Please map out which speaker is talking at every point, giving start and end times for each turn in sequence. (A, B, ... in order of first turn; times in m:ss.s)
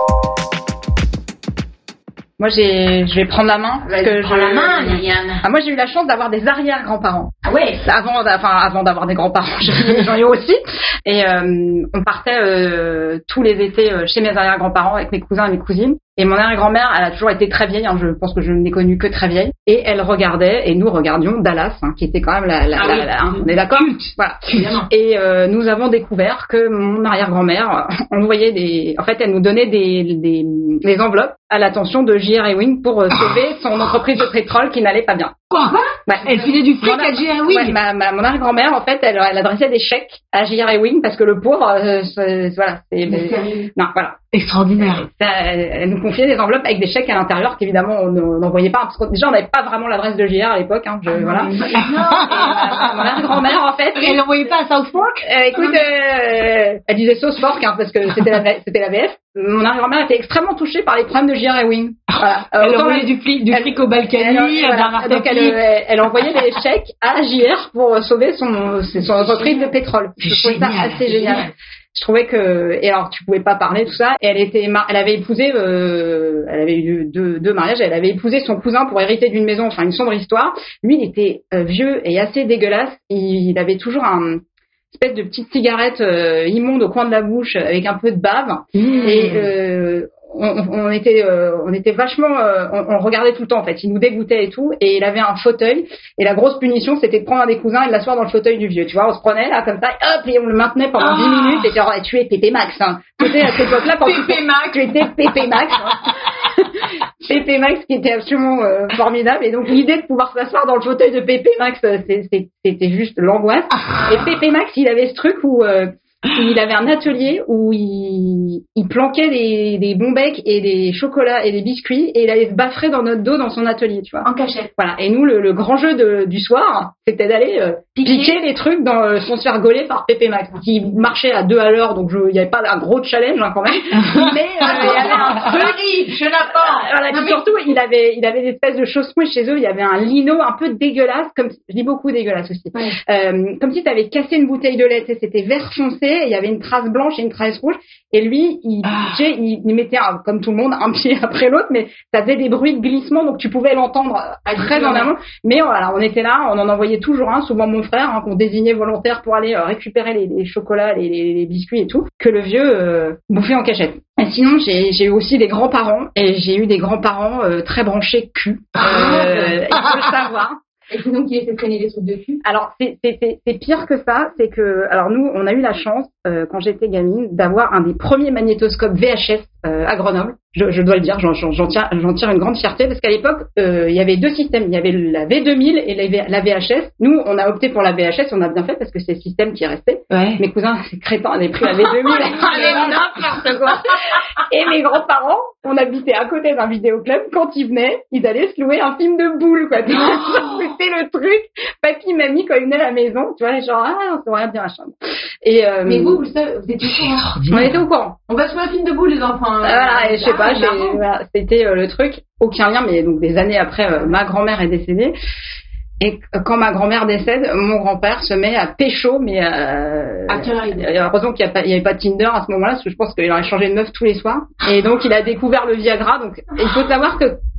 0:02.4-0:07.3 A
0:03.8-0:05.4 B
0:07.4-0:07.8 B
0:07.8-0:35.4 A
0:22.8-0:23.1 B
0:23.3-0:24.1 C
0:24.5-0:24.9 B
0:35.5-0:37.8 C
0:36.1-0:44.2 A
0:43.1-0:43.7 B
0:44.3-0:45.1 C
0:44.8-0:54.2 A
0:51.2-0:52.9 B
0:51.6-0:55.8 C
0:55.2-1:24.4 A
1:02.1-1:05.6 C
1:06.3-1:06.6 C
1:10.2-1:11.4 C
1:24.9-2:04.3 A
1:28.7-1:29.4 C
1:28.8-1:29.3 B
1:41.1-1:41.7 C
1:43.4-1:44.6 C
2:04.2-2:04.7 B
2:04.8-2:15.9 A
2:08.0-2:08.4 B
2:14.0-2:15.4 C
2:14.6-2:17.4 B
2:16.4-2:50.6 A
2:28.8-2:29.2 C
2:34.5-2:35.1 B
2:48.8-2:49.6 B
2:50.9-2:52.4 B
2:52.4-3:26.2 A
3:10.1-3:10.4 C
3:11.9-3:14.2 B
3:20.0-3:20.3 B
3:25.8-3:27.3 B
3:26.8-3:27.8 C
3:27.5-3:28.2 A
3:28.3-3:31.0 B
3:29.6-3:35.1 A
3:36.0-3:47.4 A
3:40.3-3:40.9 B